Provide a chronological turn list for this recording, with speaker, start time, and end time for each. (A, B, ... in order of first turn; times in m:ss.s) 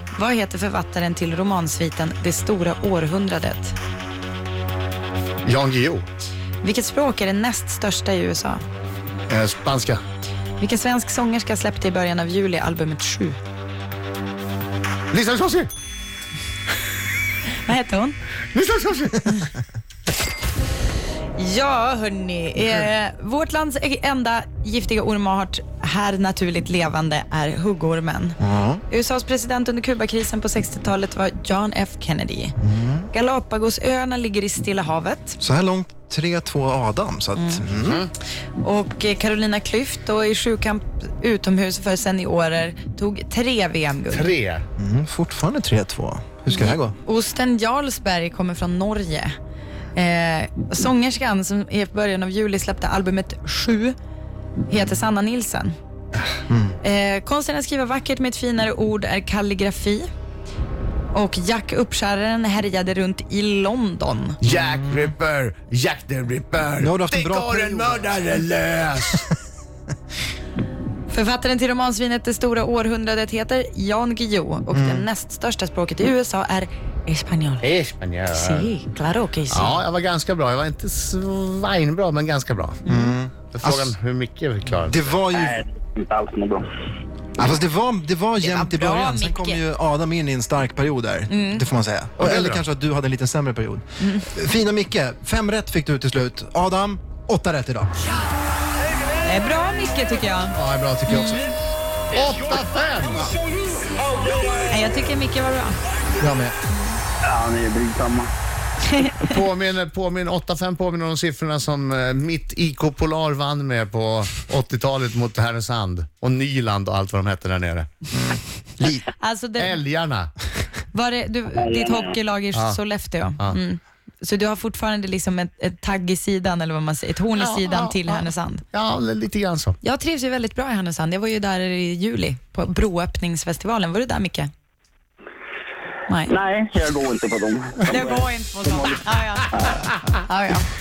0:00.1-0:03.7 A
0:05.4-0:06.0 B
0:06.6-0:08.6 A
0:09.3-0:10.0 B
0:10.6-0:13.4 A
0:15.1-0:15.7 B
0:17.6-0:18.2 A
0:18.5-0:19.5 B
0:21.4-0:32.6 A
0:28.4-0:28.8 C
0:32.6-0:33.0 C
0:33.1-0:35.4 A
0:35.4-0:38.0 C
0:37.3-0:37.6 A
0:37.8-0:38.1 B
0:38.6-0:44.3 A
0:44.1-0:44.6 B
0:44.8-0:46.9 C
0:46.5-0:49.3 A
0:49.9-0:53.9 A
0:54.7-0:55.7 A
0:56.5-0:56.8 C
0:56.8-1:00.0 A
1:01.1-1:04.4 A
1:04.4-1:09.3 B
1:06.8-1:08.3 C
1:11.1-1:17.7 A
1:14.7-1:15.0 C
1:17.6-1:18.7 B
1:18.3-1:19.8 A
1:19.5-1:22.8 B
1:22.8-1:24.0 C
1:22.9-1:23.1 A
1:23.5-1:25.1 B
1:24.9-1:25.6 C
1:25.3-1:26.6 D
1:27.4-1:38.0 C
1:28.4-1:29.6 A
1:31.3-1:31.6 A
1:32.2-1:32.6 B
1:34.0-1:34.3 A
1:39.2-1:41.4 A
1:40.6-1:41.4 B
1:40.7-1:41.4 C
1:42.1-1:43.3 B
1:44.7-1:45.8 A
1:46.2-1:46.5 C
1:47.2-1:48.3 D
1:49.2-1:57.9 B
1:58.8-2:00.3 B
1:59.2-1:59.8 A
2:00.9-2:08.6 A
2:01.5-2:02.1 D
2:07.4-2:09.8 B
2:09.8-2:14.5 A
2:16.1-2:16.3 A
2:16.3-2:19.8 D
2:17.9-2:20.7 A